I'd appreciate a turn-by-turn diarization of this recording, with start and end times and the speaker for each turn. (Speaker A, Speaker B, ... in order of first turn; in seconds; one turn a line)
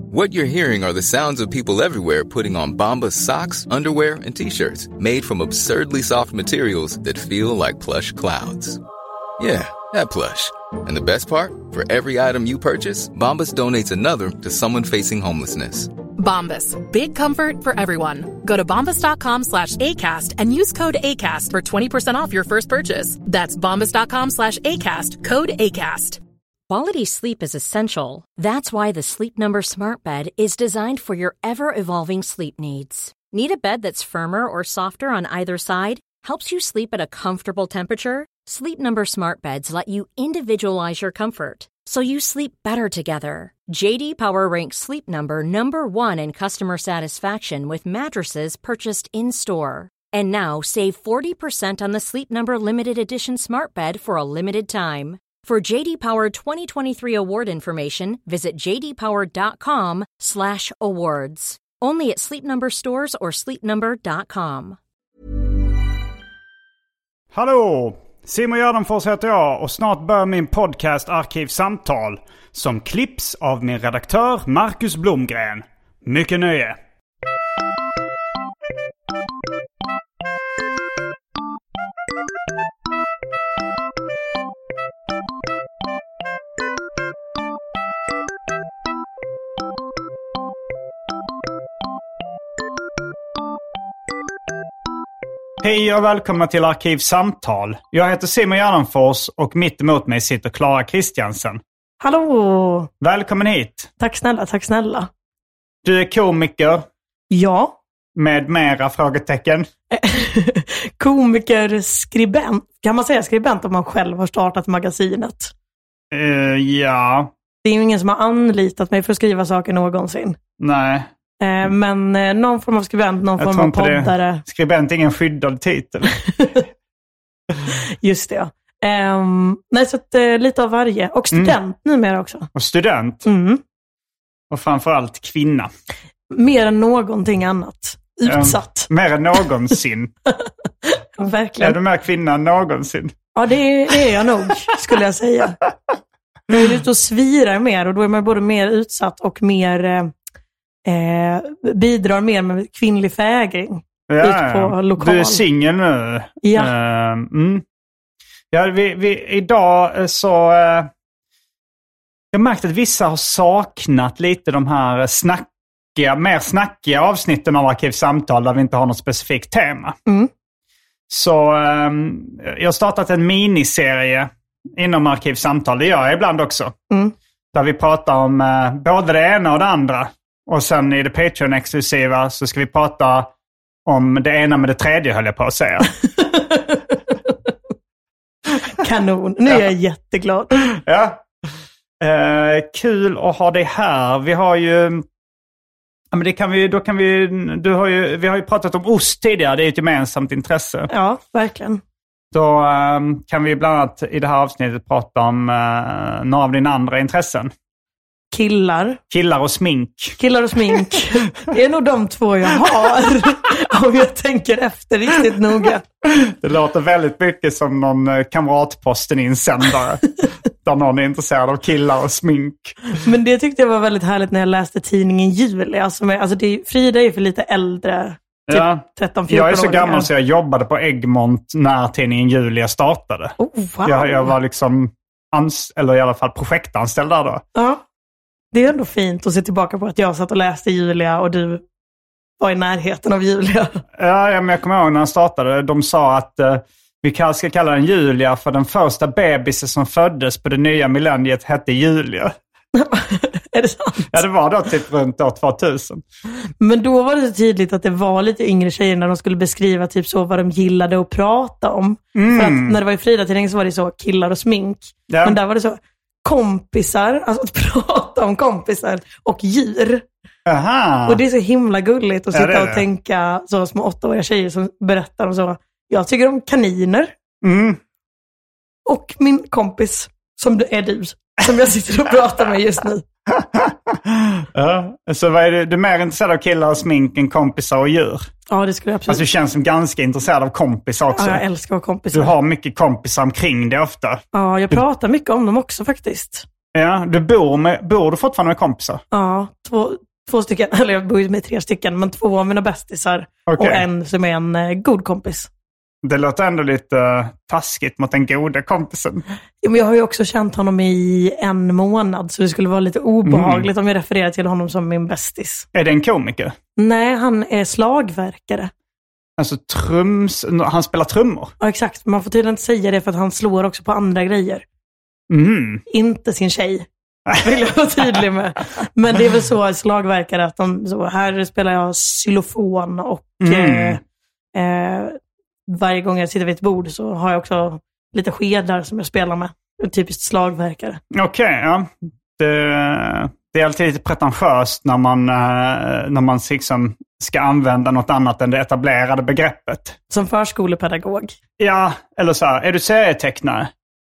Speaker A: 0.1-8.8
Speaker A: 9.4-15.9
Speaker B: 16.2-26.2
Speaker C: 26.7-64.8
Speaker D: 67.3-76.8
Speaker D: 95.6-101.6
Speaker E: 102.0-102.9
Speaker D: 103.0-103.9
Speaker E: 104.0-105.1
Speaker D: 105.8-106.9
Speaker E: 107.3-107.8
Speaker D: 108.2-109.7
Speaker E: 109.9-115.5
Speaker D: 116.1-117.3
Speaker E: 117.6-120.4
Speaker D: 120.6-121.1
Speaker E: 121.4-124.4
Speaker D: 123.4-126.2
Speaker E: 126.3-126.6
Speaker E: 128.0-132.5
Speaker D: 132.6-133.3
Speaker E: 133.2-133.6
Speaker D: 134.5-135.7
Speaker E: 136.3-138.9
Speaker D: 138.3-140.1
Speaker E: 140.4-141.8
Speaker D: 141.6-143.2
Speaker E: 143.3-145.6
Speaker E: 146.5-150.1
Speaker E: 150.9-155.4
Speaker D: 154.1-157.6
Speaker E: 156.4-156.7
Speaker D: 158.5-160.9
Speaker D: 162.3-170.0
Speaker D: 171.1-176.8
Speaker D: 177.5-183.3
Speaker D: 183.9-186.0
Speaker E: 186.2-186.8
Speaker E: 188.8-190.6
Speaker D: 190.7-191.2
Speaker D: 192.0-195.0
Speaker D: 196.1-200.9
Speaker E: 200.9-201.8
Speaker D: 202.3-207.5
Speaker E: 208.3-209.0
Speaker D: 209.1-210.2
Speaker E: 210.2-215.8
Speaker D: 216.2-222.8
Speaker E: 222.9-230.1
Speaker D: 228.5-237.4
Speaker E: 233.4-234.3
Speaker E: 237.6-237.8
Speaker E: 238.5-241.6
Speaker E: 242.4-243.8
Speaker D: 244.0-252.3
Speaker E: 252.7-254.2
Speaker D: 254.1-256.0
Speaker E: 256.6-270.1
Speaker D: 262.1-262.8
Speaker D: 265.1-265.4
Speaker D: 270.5-271.2
Speaker E: 271.1-277.1
Speaker D: 272.3-272.8
Speaker D: 277.4-277.8
Speaker E: 278.9-283.1
Speaker D: 283.3-288.3
Speaker E: 288.5-289.2
Speaker D: 289.1-291.4
Speaker E: 291.1-292.3
Speaker D: 292.1-294.2
Speaker E: 294.3-296.5
Speaker D: 296.7-299.0
Speaker E: 299.1-305.5
Speaker D: 303.5-303.9
Speaker D: 306.0-309.2
Speaker E: 309.6-315.7
Speaker D: 313.2-313.7
Speaker D: 315.7-316.6
Speaker E: 316.8-318.7
Speaker D: 319.4-321.5
Speaker E: 321.6-324.6
Speaker D: 325.3-325.8
Speaker E: 325.9-326.9
Speaker E: 327.4-334.0
Speaker D: 333.4-334.0
Speaker E: 334.6-341.0
Speaker D: 341.1-350.0
Speaker E: 350.1-351.4
Speaker D: 351.6-353.7